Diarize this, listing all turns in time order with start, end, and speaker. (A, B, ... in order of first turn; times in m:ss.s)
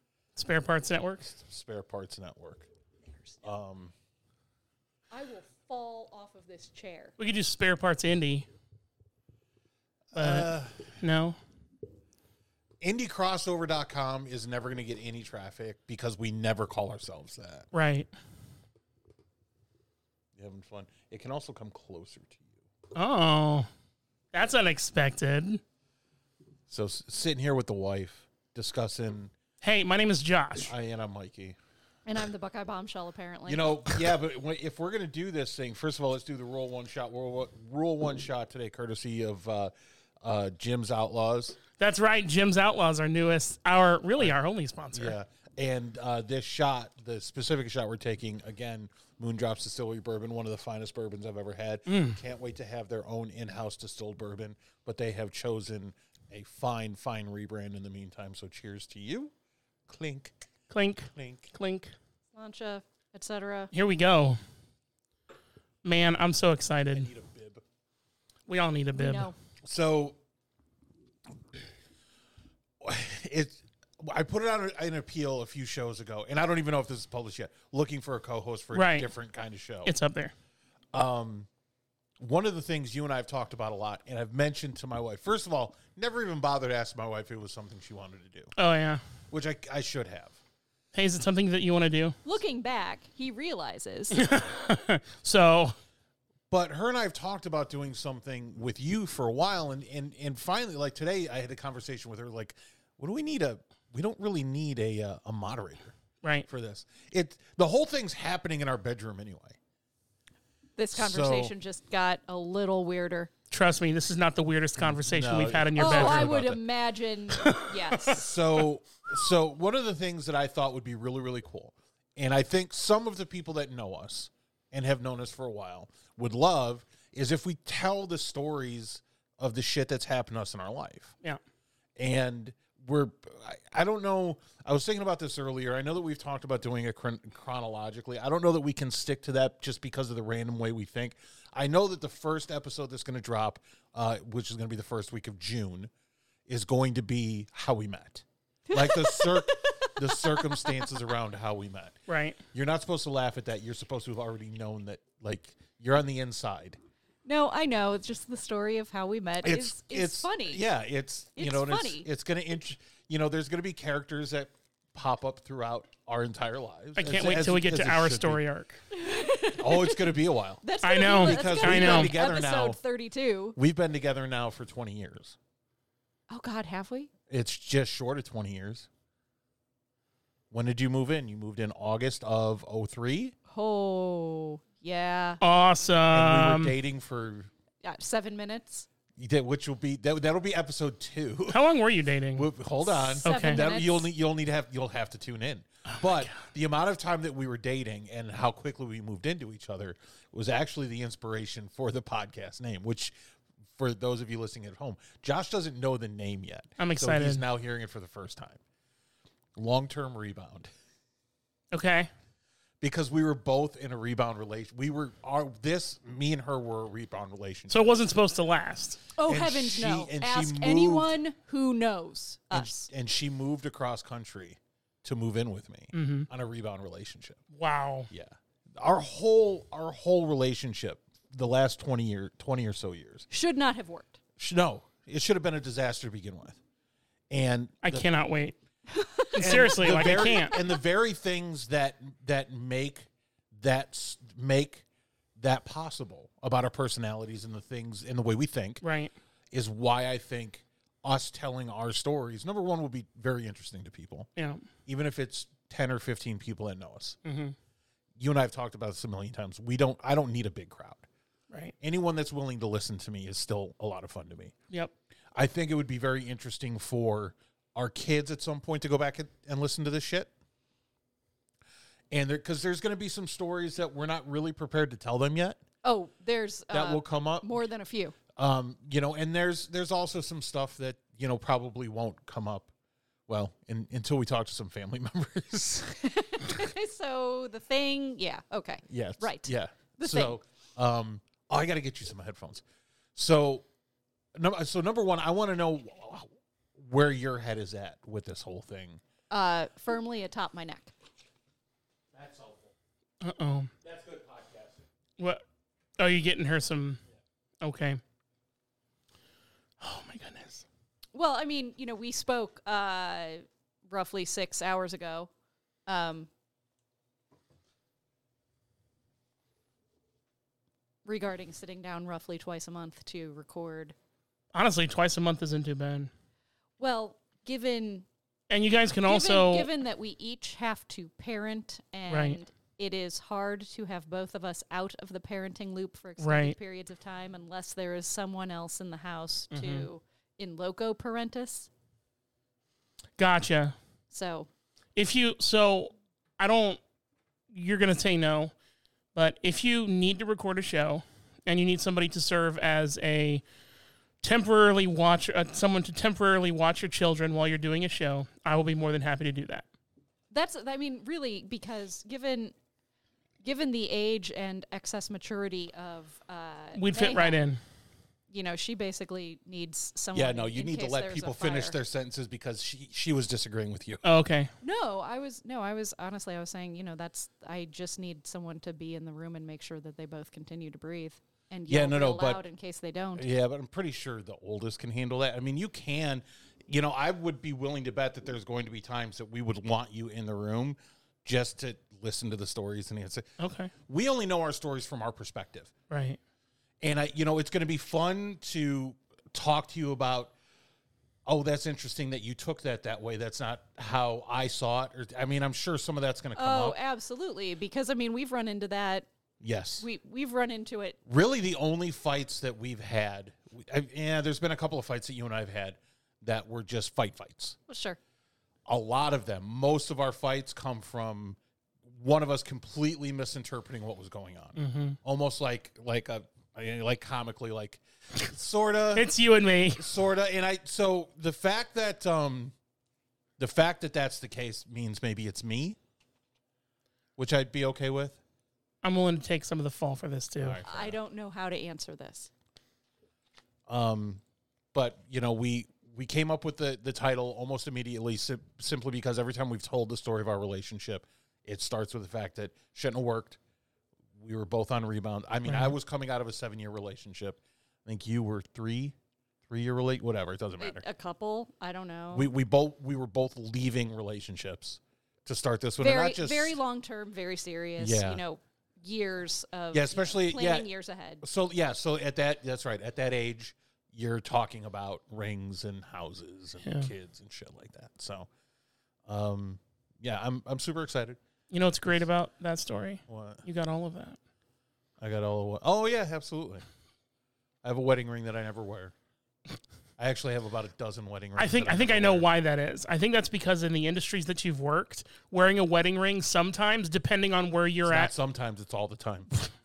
0:00.3-0:01.3 A
0:01.2-0:02.7 B
0:03.4-0:03.9 B
0:05.1-0:07.1 C
0:07.2-0:08.5 A
0:10.1-0:10.9 B
0:10.2-0:10.5 A
0:11.0-0:11.4 A
0:12.8-0:17.7 B
0:17.7-0:18.1 A
0:20.4-0:22.5 B
0:22.9-0:23.7 A
0:24.3-0:25.6 A
0:26.7-0:29.3 B
0:29.6-0:30.7 A
0:30.6-0:31.6 B
0:32.0-0:33.7 C
0:33.4-0:39.7 B
0:40.2-0:41.6 B
0:41.8-0:45.1 A
0:44.9-0:59.3 B
0:51.9-0:52.2 A
0:59.9-1:00.3 B
1:00.7-1:01.9 A
1:01.1-1:01.5 B
1:02.3-1:03.7 C
1:03.7-1:04.4 A
1:05.8-1:07.1 A
1:06.9-1:07.6 B
1:08.5-1:09.3 A
1:08.9-1:09.3 C
1:09.6-1:10.2 B
1:12.8-1:19.9 B
1:18.7-1:19.1 A
1:19.8-1:20.3 A
1:20.9-1:21.5 B
1:22.2-1:28.5 B
1:28.6-1:29.0 A
1:29.3-1:30.4 B
1:30.9-1:32.2 A
1:32.2-1:34.2 C
1:34.1-1:35.7 A
1:36.5-1:45.9 B
1:46.4-1:49.6 B
1:50.8-1:53.3 C
1:50.9-1:51.5 B
1:53.5-1:56.4 A
1:54.8-1:56.6 B
1:55.8-1:58.4 C
1:57.3-1:58.2 A
1:58.1-2:11.2 B
2:12.0-2:25.9 B
2:26.5-2:32.0 B
2:28.7-2:30.9 C
2:32.1-2:32.4 A
2:32.5-2:36.8 B
2:37.2-2:40.6 C
2:39.4-2:48.4 B
2:41.4-2:42.1 C
2:47.0-2:48.8 A
2:48.9-2:50.0 C
2:49.6-2:50.6 B
2:50.6-2:53.6 C
2:50.8-2:52.2 A
2:51.2-2:52.8 B
2:53.5-2:55.4 B
2:56.3-2:57.1 C
2:57.3-2:58.9 B
3:00.5-3:03.3 B
3:03.5-3:05.4 C
3:05.4-3:06.7 A
3:06.1-3:07.5 B
3:07.8-3:08.9 C
3:09.2-3:11.6 B
3:11.5-3:12.5 A
3:12.3-3:23.1 B
3:12.9-3:14.1 C
3:13.2-3:13.6 A
3:16.0-3:16.3 A
3:23.8-3:28.6 B
3:26.8-3:27.4 A
3:29.6-3:30.7 B
3:31.7-3:32.1 A
3:32.8-3:38.0 B
3:37.7-3:39.0 A
3:39.2-3:42.9 C
3:39.3-3:41.1 B
3:42.5-3:47.4 B
3:45.9-3:46.3 A
3:47.5-3:48.1 A
3:48.1-3:53.3 B
3:53.3-3:54.2 C
3:54.4-3:56.6 B
3:57.3-3:58.0 B
3:57.8-3:58.6 A
3:58.9-4:00.7 C
3:59.3-4:00.6 A
3:59.3-4:04.8 B
4:05.4-4:08.8 B
4:08.8-4:09.1 A
4:09.5-4:14.3 B
4:14.4-4:14.6 A
4:14.8-4:17.2 B
4:17.2-4:17.5 A
4:18.2-4:21.0 B
4:21.8-4:24.5 B
4:25.3-4:30.3 B
4:32.1-4:35.6 B
4:35.8-4:38.2 C
4:36.7-4:37.5 B
4:38.4-4:42.7 B
4:43.3-4:46.2 B
4:46.0-4:50.3 C
4:48.9-4:52.6 B
4:53.1-4:53.6 B
4:54.3-4:59.0 B
4:59.3-5:00.9 C
5:02.1-5:02.7 B
5:03.2-5:03.7 A
5:03.8-5:04.8 B
5:06.0-5:07.0 A
5:07.6-5:08.0 A
5:09.8-5:10.6 A
5:11.1-5:15.3 C
5:15.9-5:16.3 C
5:21.0-5:23.9 C
5:24.5-5:26.1 A
5:26.8-5:28.0 C
5:28.5-5:29.7 A
5:29.1-5:41.7 C
5:32.1-5:32.4 A
5:36.2-5:36.6 A
5:39.5-5:39.9 A
5:43.2-5:43.8 A
5:44.1-5:44.5 C
5:44.9-5:46.8 A
5:47.5-5:48.5 A
5:49.1-5:53.4 A
5:54.2-5:59.6 A
6:00.3-6:02.5 C
6:03.4-6:07.4 C
6:06.7-6:07.6 A
6:08.3-6:11.8 C
6:10.1-6:14.0 B
6:14.0-6:14.5 A
6:14.6-6:23.2 C
6:21.7-6:22.4 B
6:23.2-6:33.3 B
6:33.4-6:33.7 A
6:33.9-6:35.7 B
6:35.9-6:36.2 A
6:36.8-6:40.3 B
6:41.2-6:46.8 B
6:46.3-6:49.1 C
6:49.4-6:49.8 B
6:49.8-6:51.0 C
6:51.0-6:57.6 B
6:57.7-6:58.0 C
6:58.7-7:09.1 B
7:04.6-7:05.0 A
7:08.9-7:09.8 A
7:09.7-7:12.5 B
7:13.4-7:15.8 B
7:17.2-7:18.2 B
7:18.8-7:20.6 A
7:20.4-7:21.0 B
7:20.6-7:22.3 C
7:23.7-7:24.2 B
7:24.7-7:33.4 B
7:34.2-7:39.0 B
7:35.5-7:35.8 A
7:39.5-7:40.8 B
7:40.6-7:42.3 C
7:42.1-7:46.6 B
7:45.8-7:51.2 C
7:47.8-7:48.2 B
7:49.7-7:50.7 B
7:51.2-7:58.3 B
7:56.6-7:56.9 A
7:59.1-8:01.2 B
8:01.5-8:04.2 A
8:03.1-8:03.4 B
8:05.0-8:06.6 B
8:07.6-8:08.9 B
8:10.0-8:12.3 B
8:11.4-8:18.1 A
8:17.8-8:19.3 B